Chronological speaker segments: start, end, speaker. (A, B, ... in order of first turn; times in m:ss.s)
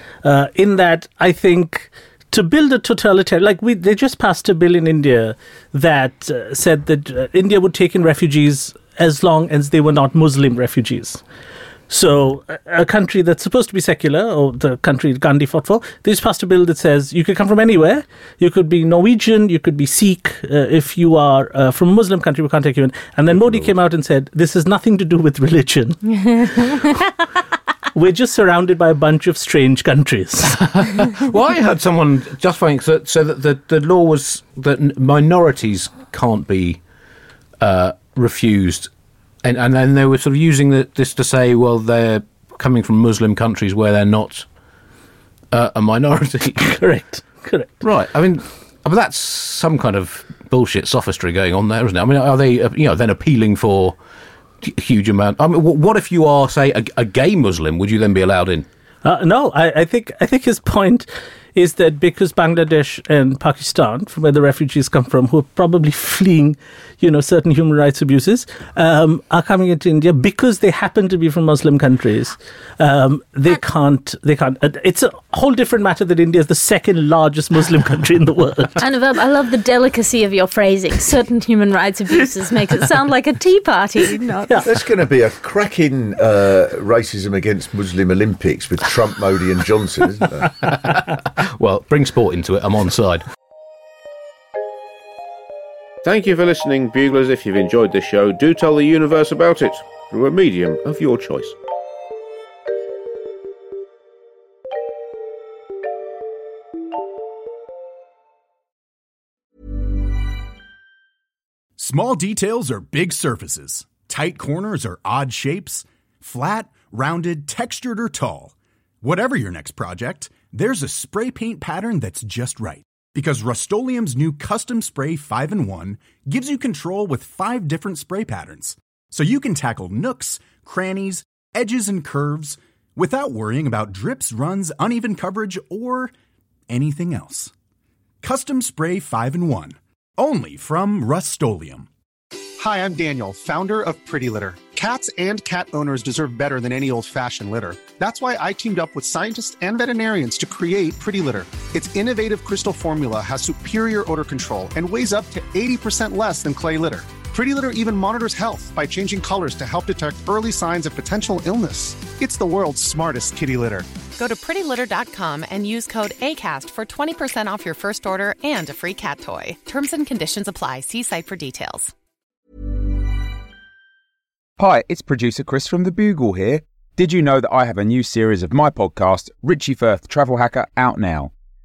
0:00.2-0:11.2 A
0:11.9-0:26.7 A
0:27.9-0:30.6 A
0:30.6-0:36.8 B
0:37.6-0:38.9 B
0:39.4-0:44.5 B
0:45.5-0:46.8 B
0:46.7-0:47.7 A
0:47.8-0:54.0 B
0:54.6-0:58.7 B
0:59.0-1:18.8 A
1:18.8-1:24.6 C
1:24.6-1:30.6 D
1:30.5-1:33.2 B
1:36.0-1:41.6 E
1:51.8-2:16.1 F
2:16.7-2:17.5 F
2:18.2-2:21.9 F
2:22.6-2:43.9 G
2:44.2-2:51.9 H
2:54.6-3:01.3 I